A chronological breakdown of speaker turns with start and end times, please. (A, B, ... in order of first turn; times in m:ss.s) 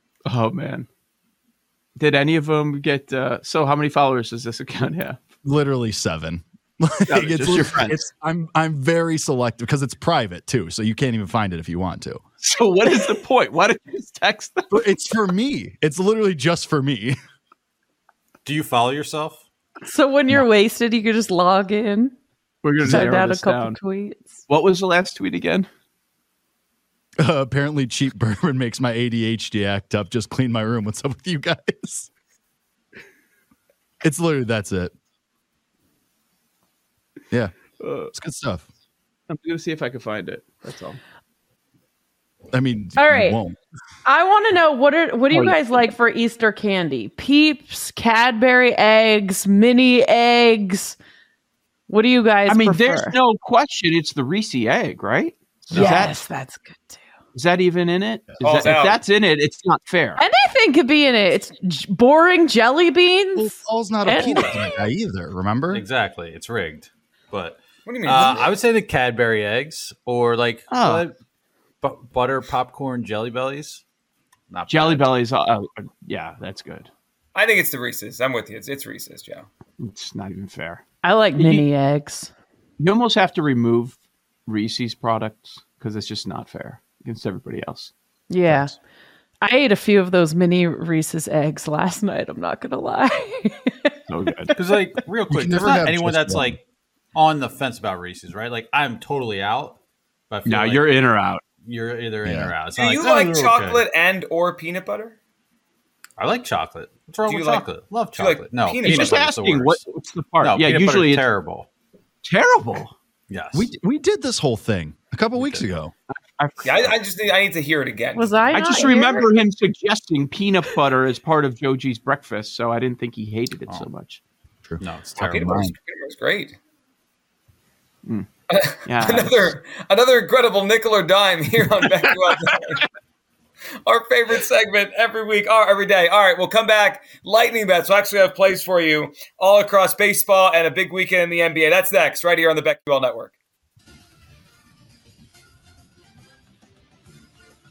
0:00.3-0:00.9 A
0:02.0-0:05.2 A
0:05.4-0:12.2 B
0:06.9-0:08.0 A
0:12.4-0:14.8 A
0:14.7-0:17.2 B
0:18.4-0:19.4 C
0:19.8-0:22.1 D
0:22.6-0:23.8 A
0:22.8-0:24.5 D
0:22.8-0:23.1 B
0:24.5-0:25.7 A
0:27.2-0:32.1 B
0:34.0-0:34.9 B
0:37.3-0:37.6 B
0:37.8-0:38.1 A
0:38.1-0:38.7 B
0:39.3-0:41.0 A
0:42.5-0:43.6 B
0:43.0-0:43.4 D
0:44.1-0:51.0 D
0:45.3-0:45.6 A
0:51.9-0:53.2 D
0:52.5-0:56.2 A
0:55.7-0:57.0 D
0:55.7-0:56.1 C
0:57.3-1:00.2 A
0:58.4-0:59.0 E
1:00.2-1:04.7 D
1:03.4-1:05.8 B
1:05.7-1:11.1 C
1:07.9-1:08.5 E
1:10.7-1:11.0 A
1:11.8-1:13.8 C
1:14.5-1:15.3 C
1:14.7-1:16.9 A
1:17.4-1:19.5 E
1:19.8-1:20.8 A
1:21.0-1:22.3 D
1:21.3-1:21.7 A
1:22.8-1:27.9 A
1:28.3-1:28.8 D
1:28.5-1:28.8 C
1:29.4-1:34.7 D
1:34.1-1:34.5 A
1:34.5-1:36.6 C
1:35.3-1:36.6 B
1:37.2-1:39.8 C
1:40.3-1:41.1 C
1:40.5-1:41.4 A
1:41.6-1:43.8 C
1:42.2-1:42.5 B
1:42.7-1:45.2 E
1:46.2-1:49.8 C
1:47.3-1:49.3 E
1:48.8-1:51.3 A
1:50.4-1:51.7 C
1:52.2-1:52.9 A
1:53.3-1:53.7 C
1:53.5-1:55.9 B
1:55.3-1:55.7 C
1:56.1-1:56.9 A
1:56.6-1:58.4 E
1:58.2-1:59.4 D
1:58.5-2:04.2 A
2:04.7-2:05.8 B
2:04.8-2:05.6 C
2:05.2-2:06.6 E
2:08.5-2:12.8 E
2:08.9-2:09.4 A
2:13.9-2:23.3 E